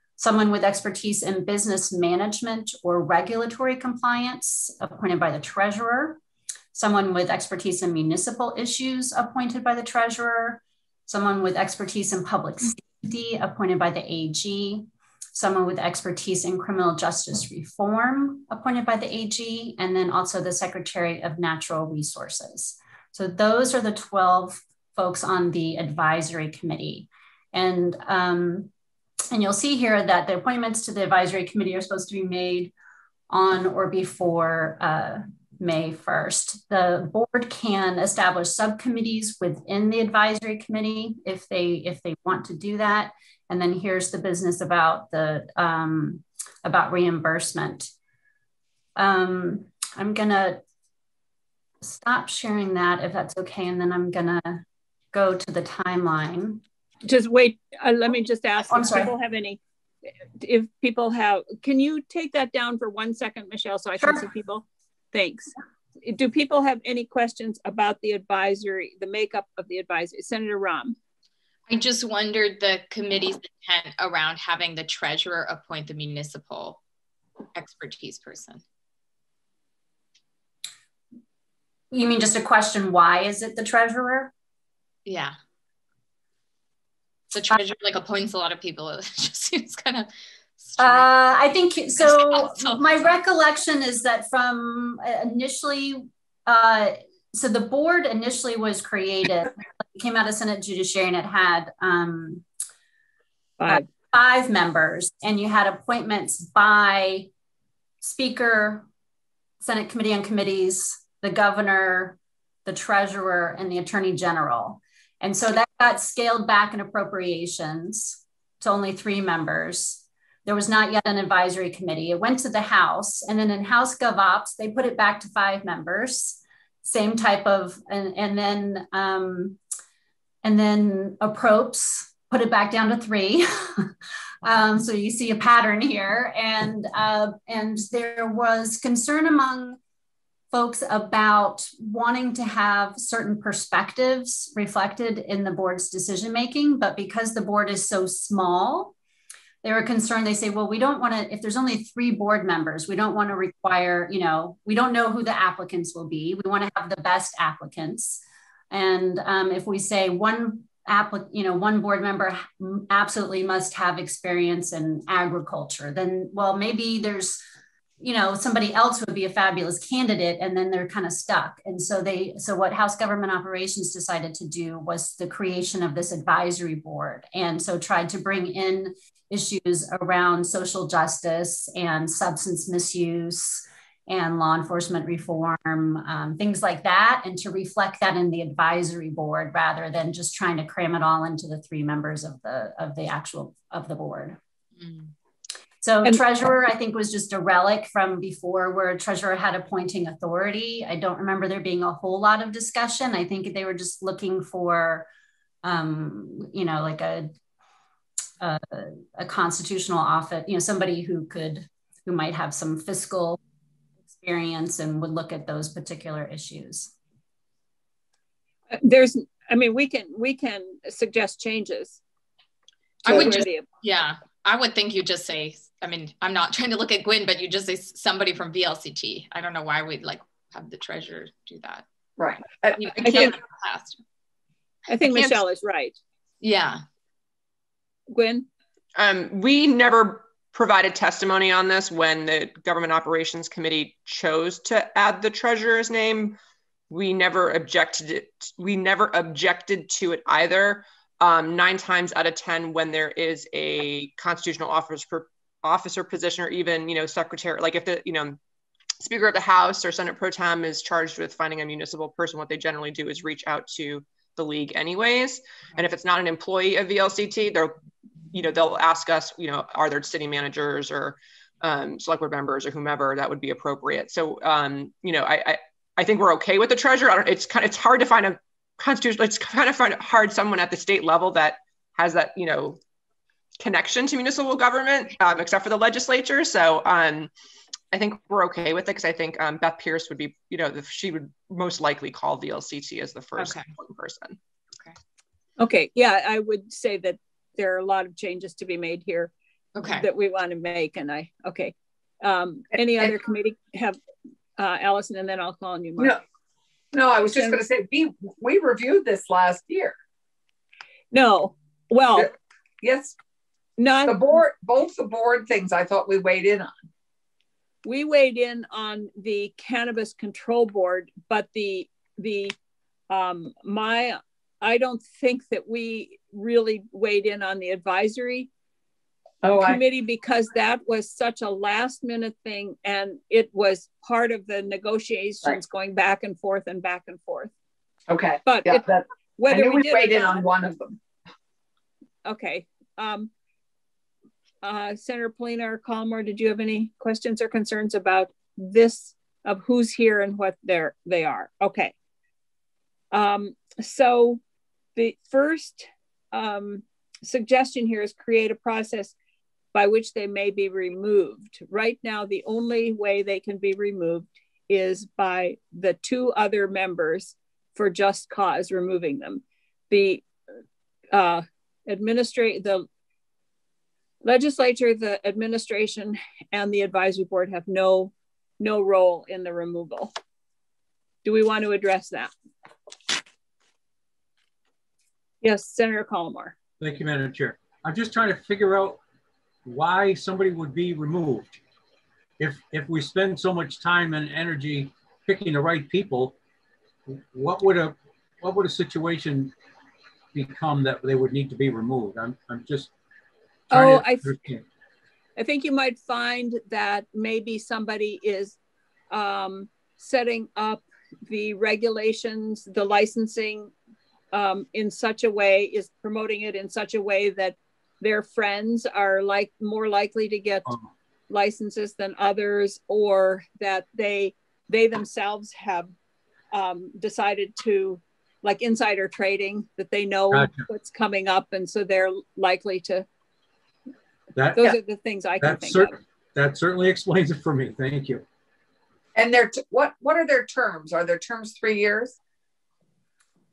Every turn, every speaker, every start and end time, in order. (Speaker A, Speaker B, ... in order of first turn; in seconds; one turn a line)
Speaker A: 0.2-6.2
Speaker A: 6.7-28.7
Speaker A: 29.3-32.7
Speaker A: 33.3-47.9
Speaker A: 49.0-50.6
Speaker A: 51.8-56.6
Speaker B: 57.0-59.6
Speaker A: 58.6-59.1
Speaker B: 60.4-65.5
Speaker A: 64.0-64.2
Speaker B: 66.0-71.0
Speaker C: 71.7-76.8
Speaker C: 77.5-78.6
Speaker A: 81.9-84.3
Speaker C: 85.1-85.3
Speaker C: 87.3-91.1
Speaker A: 90.8-102.4
Speaker C: 92.0-92.9
Speaker B: 103.6-103.8
Speaker A: 103.7-107.3
Speaker A: 108.0-108.9
Speaker A: 109.6-129.6
Speaker A: 130.4-133.9
Speaker A: 134.4-139.8
Speaker A: 140.5-148.9
Speaker A: 149.6-167.4
Speaker A: 168.0-194.4
Speaker C: 194.8-195.1
Speaker A: 195.8-205.1
Speaker A: 205.6-207.3
Speaker A: 208.4-213.4
Speaker A: 214.1-216.9
Speaker B: 218.7-222.0
Speaker B: 223.0-223.7
Speaker C: 223.1-231.8
Speaker D: 232.2-233.3
Speaker C: 232.8-234.0
Speaker B: 233.0-233.3
Speaker B: 234.9-236.0
Speaker C: 236.4-236.8
Speaker B: 238.1-238.5
Speaker E: 239.0-246.4
Speaker E: 246.9-258.4
Speaker E: 259.0-267.7
Speaker E: 268.3-282.8
Speaker E: 283.6-287.3
Speaker E: 287.9-294.4
Speaker C: 293.4-293.7
Speaker B: 295.6-299.3
Speaker C: 299.8-300.1
Speaker B: 299.9-304.0
Speaker D: 302.8-303.1
Speaker B: 304.6-306.2
Speaker D: 306.9-309.9
Speaker B: 311.1-312.3
Speaker D: 312.2-313.1
Speaker B: 313.8-314.3
Speaker D: 314.1-316.7
Speaker B: 317.9-322.6
Speaker B: 323.1-328.5
Speaker D: 329.4-329.8
Speaker B: 329.6-337.5
Speaker D: 338.1-341.0
Speaker B: 338.4-338.9
Speaker B: 339.4-340.5
Speaker B: 342.2-343.3
Speaker B: 344.6-351.9
Speaker B: 353.1-354.4
Speaker B: 355.0-359.1
Speaker B: 359.7-370.3
Speaker B: 371.1-372.9
Speaker B: 374.2-380.1
Speaker B: 381.2-382.3
Speaker B: 385.4-386.6
Speaker F: 386.8-389.0
Speaker F: 389.6-391.6
Speaker F: 392.4-396.4
Speaker F: 397.1-399.5
Speaker F: 400.3-402.9
Speaker F: 403.7-404.6
Speaker B: 403.7-404.3
Speaker B: 405.4-408.6
Speaker B: 409.1-413.7
Speaker B: 414.3-420.7
Speaker B: 421.3-425.9
Speaker B: 426.5-433.1
Speaker F: 430.3-430.7
Speaker F: 434.4-434.8
Speaker B: 434.6-436.0
Speaker F: 435.4-438.2
Speaker D: 439.2-442.2